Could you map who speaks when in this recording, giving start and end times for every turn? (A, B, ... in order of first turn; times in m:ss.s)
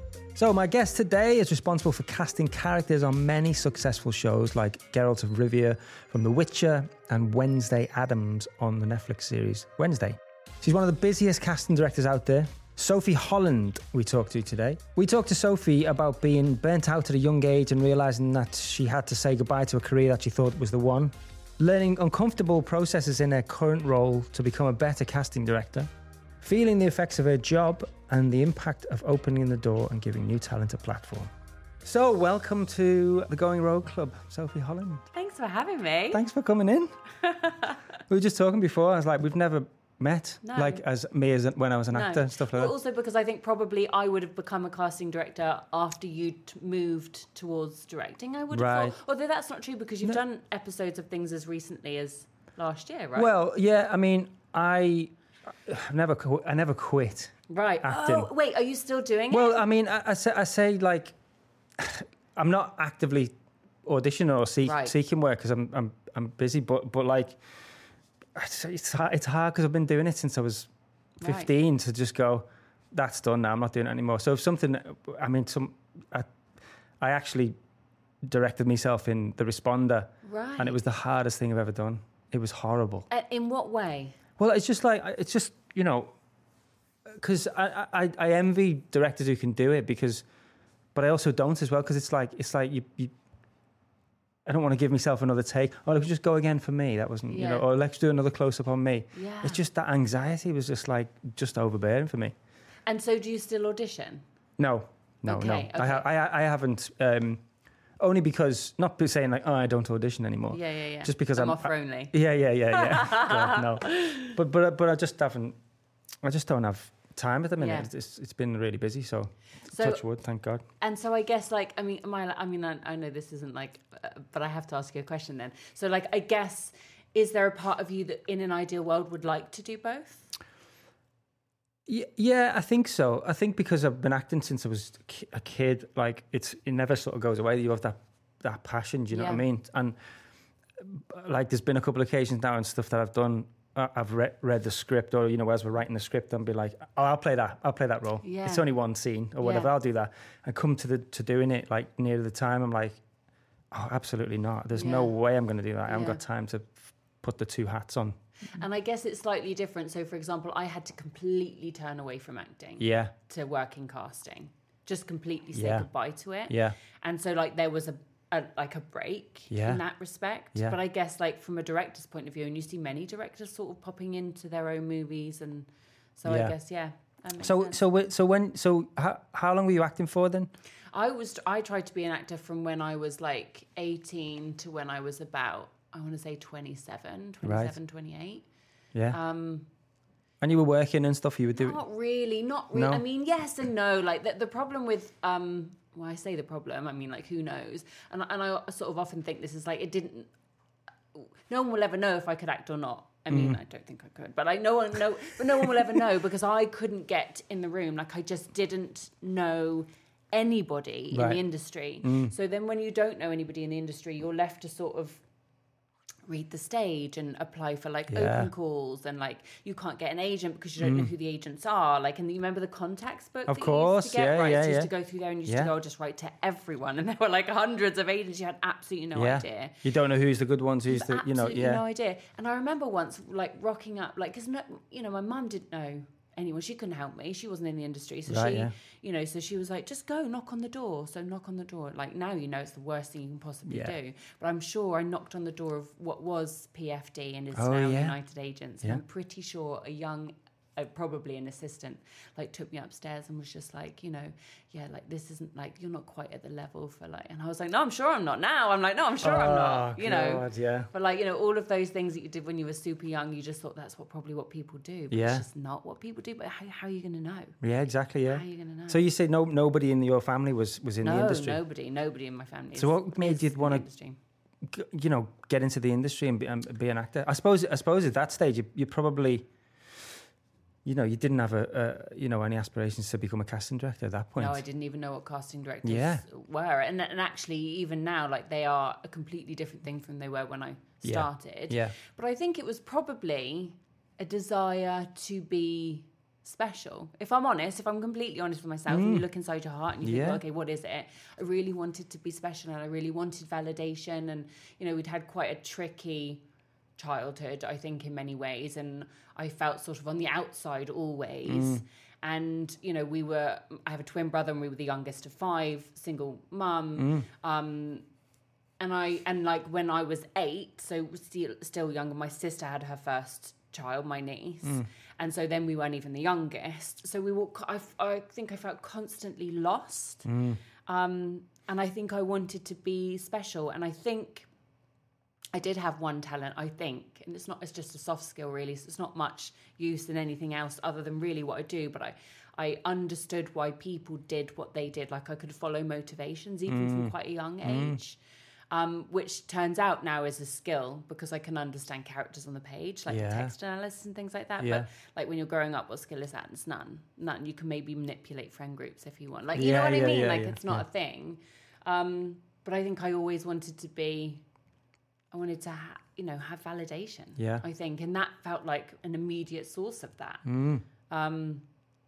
0:00.4-0:25.9 A
0:26.4-0:31.3 A
0:31.8-0:35.0 A
0:35.1-0:36.2 B
0:36.1-0:37.0 A
0:37.2-0:37.8 B
0:38.1-0:42.7 A
0:40.4-0:40.8 B
0:41.9-0:53.3 B
0:48.5-0:49.0 A
0:53.1-0:55.1 A
0:55.6-0:58.3 A
0:57.5-0:59.6 B
0:59.3-1:01.1 A
1:01.8-1:03.3 A
1:03.8-1:07.4 A
1:04.6-1:04.9 B
1:08.3-1:10.7 A
1:11.2-1:11.5 B
1:11.2-1:16.3 A
1:17.0-1:17.6 A
1:18.2-1:23.1 A
1:20.2-1:20.8 B
1:23.1-1:24.2 B
1:24.4-1:26.1 A
1:27.2-1:30.2 A
1:30.9-1:33.1 A
1:34.4-1:42.3 A
1:37.3-1:37.6 B
1:39.1-1:39.6 B
1:42.9-1:44.2 B
1:44.6-1:47.4 A
1:45.2-1:46.1 B
1:48.0-1:55.6 A
1:50.5-1:52.1 B
1:52.7-1:54.3 B
1:56.2-2:00.7 A
1:57.6-1:57.9 B
1:59.7-2:00.0 B
2:00.8-2:10.3 B
2:11.9-2:20.0 A
2:19.1-2:19.4 B
2:20.8-2:33.0 A
2:28.2-2:28.7 B
2:29.4-2:29.7 B
2:33.7-2:38.2 A
2:34.8-2:35.1 B
2:35.9-2:36.2 B
2:38.5-2:57.8 B
2:42.8-2:43.1 A
2:45.5-2:45.9 A
2:46.5-2:46.8 A
2:49.5-2:49.8 A
2:56.3-2:56.5 A
2:57.4-3:00.5 A
3:00.9-3:08.5 B
3:07.4-3:07.8 A
3:09.1-3:09.7 B
3:10.4-3:11.8 A
3:11.6-3:20.3 B
3:12.7-3:13.0 A
3:21.1-3:35.2 B
3:23.3-3:23.6 A
3:31.1-3:31.4 A
3:32.0-3:32.3 A
3:36.2-3:49.8 B
3:38.1-3:38.5 A
3:40.8-3:41.1 A
3:43.5-3:44.9 A
3:45.5-3:45.7 A
3:49.2-3:51.8 A
3:50.8-4:27.6 B
3:58.3-3:58.7 A
4:03.7-4:03.9 A
4:07.6-4:08.2 A
4:19.2-4:20.9 A
4:25.1-4:25.4 A
4:27.6-4:31.6 A
4:28.3-4:29.0 B
4:31.0-4:34.2 B
4:32.8-4:33.8 A
4:34.6-4:39.5 A
4:40.8-4:44.6 A
4:44.4-5:06.4 B
4:45.8-4:46.2 A
4:51.0-4:52.0 A
4:58.9-4:59.2 A
5:00.0-5:00.4 A
5:07.0-5:18.1 B
5:11.5-5:11.8 A
5:17.0-5:17.3 A
5:18.8-5:30.3 B
5:30.2-5:30.6 A
5:30.8-5:34.5 B
5:35.5-6:04.4 B
5:46.7-5:48.0 A
5:53.1-5:53.5 A
5:54.6-5:54.9 A
5:59.6-6:00.8 A
6:05.3-6:10.4 B
6:07.4-6:07.6 A
6:10.4-6:10.8 A
6:11.1-6:11.6 B